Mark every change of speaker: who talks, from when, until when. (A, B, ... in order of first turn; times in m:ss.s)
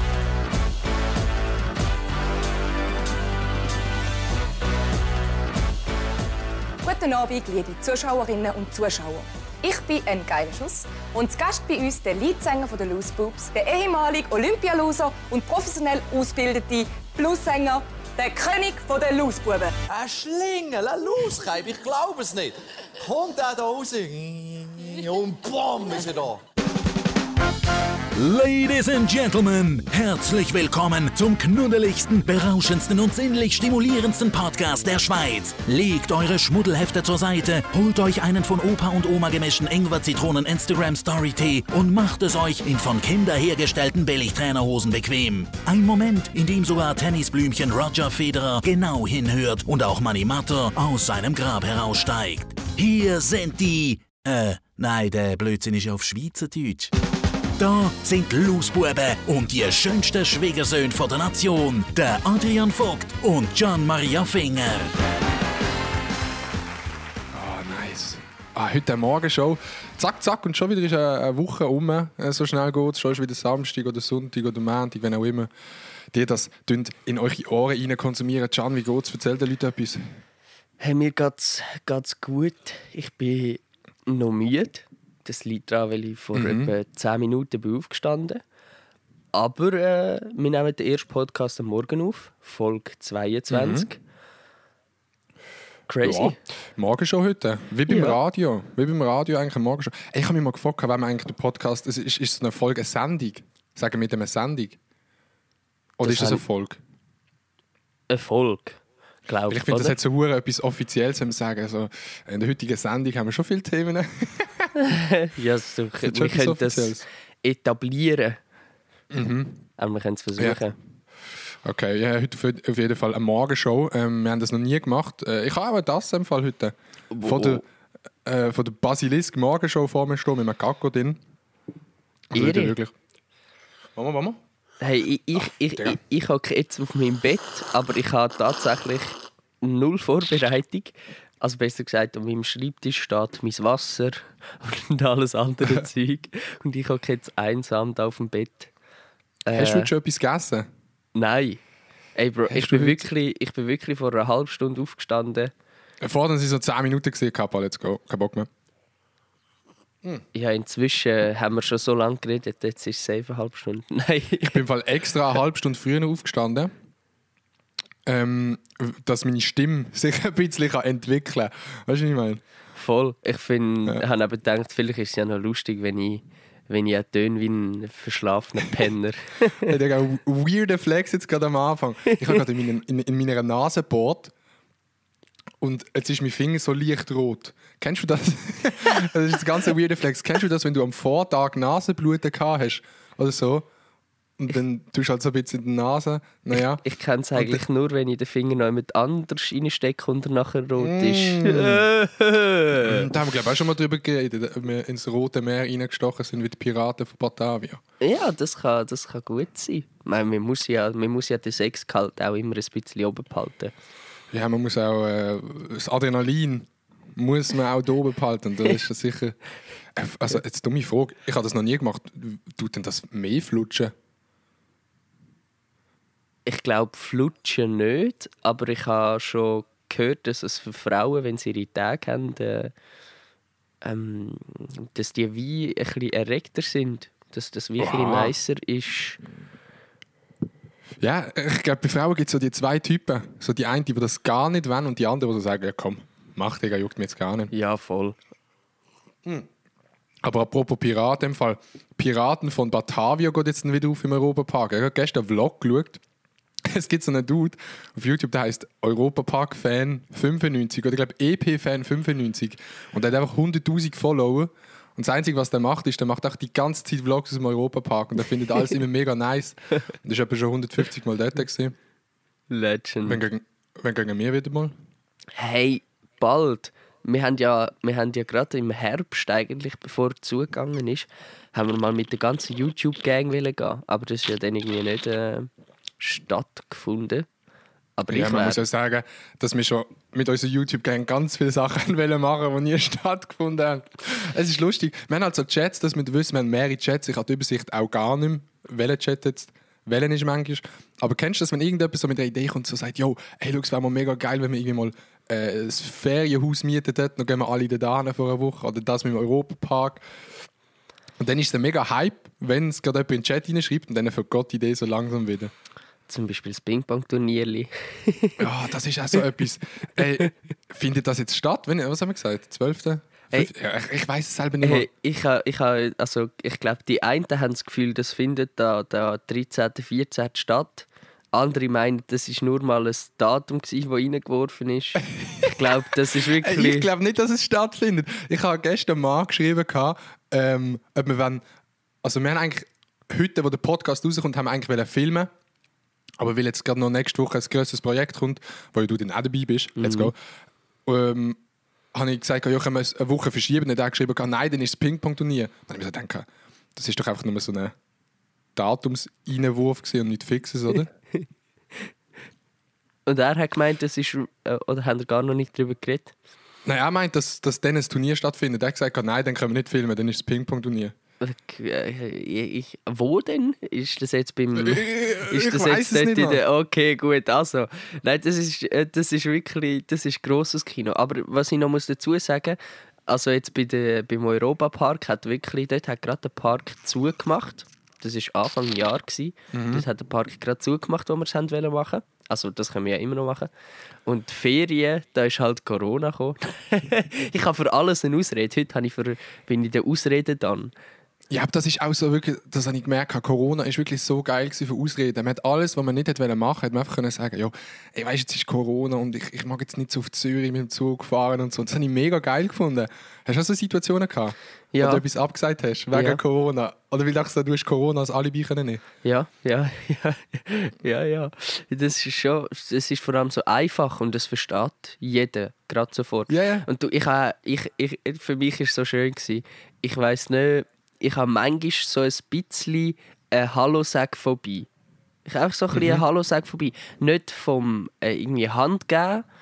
0:06.8-0:19.7 A
0:20.0-0:21.3 B
0:21.2-0:22.2 C
0:22.0-0:22.5 B
0:23.1-0:24.2 B
0:28.1-0:56.9 C
0:57.6-1:04.9 C
1:07.3-1:15.5 D
1:16.1-1:20.0 D
1:20.8-1:28.4 E
1:26.3-1:26.7 D
1:29.3-1:34.0 E
1:33.5-1:33.9 D
1:35.9-1:36.4 E
1:36.0-1:44.8 D
1:37.9-1:38.2 E
1:46.0-1:46.8 D
1:46.0-1:46.4 E
1:48.1-1:50.0 E
1:49.5-1:54.7 D
1:54.8-1:58.4 E
1:56.0-1:57.0 D
1:59.1-1:59.7 D
1:59.8-2:00.8 E
2:01.6-2:07.6 D
2:07.1-2:07.6 E
2:08.2-2:11.2 D
2:12.3-2:12.9 D
2:12.3-2:12.8 E
2:14.0-2:14.4 D
2:14.8-2:28.7 E
2:29.5-2:29.9 E
2:29.5-2:30.7 D
2:31.2-2:31.6 E
2:32.2-2:35.5 E
2:32.5-2:33.1 D
2:36.0-2:38.5 D
2:40.3-2:44.6 E
2:44.4-2:46.7 D
2:48.1-2:52.4 D
2:52.8-2:59.7 E
2:59.6-3:04.3 D
3:05.6-3:13.7 D
3:14.4-3:16.8 D
3:16.8-3:23.1 E
3:17.4-3:17.6 D
3:20.8-3:21.9 D
3:22.8-3:27.8 D
3:28.0-3:33.7 E
3:34.3-3:39.4 D
3:40.0-3:43.9 D
3:46.5-3:52.7 E
3:53.8-3:59.2 E
3:57.8-3:58.4 D
4:01.0-4:07.5 D
4:07.5-4:08.2 E
4:10.2-4:16.0 D
4:16.6-4:31.8 D
4:32.5-4:33.2 E
4:33.0-4:34.8 D
4:35.4-4:47.3 E
4:48.0-4:48.6 E
4:48.1-5:10.0 D
5:11.2-5:15.5 D
5:16.1-5:18.5 E
5:18.4-5:24.9 D
5:24.6-5:36.9 E
5:35.2-5:41.4 D
5:42.0-5:45.3 D
5:46.2-5:50.2 D
5:49.8-5:50.1 E
5:50.9-5:51.4 D
5:51.9-5:57.7 D
5:58.6-6:00.9 D
6:03.1-6:06.2 E
6:06.6-6:10.9 D
6:11.2-6:33.5 E
6:14.6-6:16.4 D
6:29.5-6:29.9 D
6:34.1-6:40.7 E
6:41.3-6:58.8 D
6:54.7-6:55.0 E
6:55.9-6:56.2 E
6:59.0-7:14.7 E
7:06.3-7:06.7 D
7:15.3-7:19.2 E
7:15.7-7:16.0 D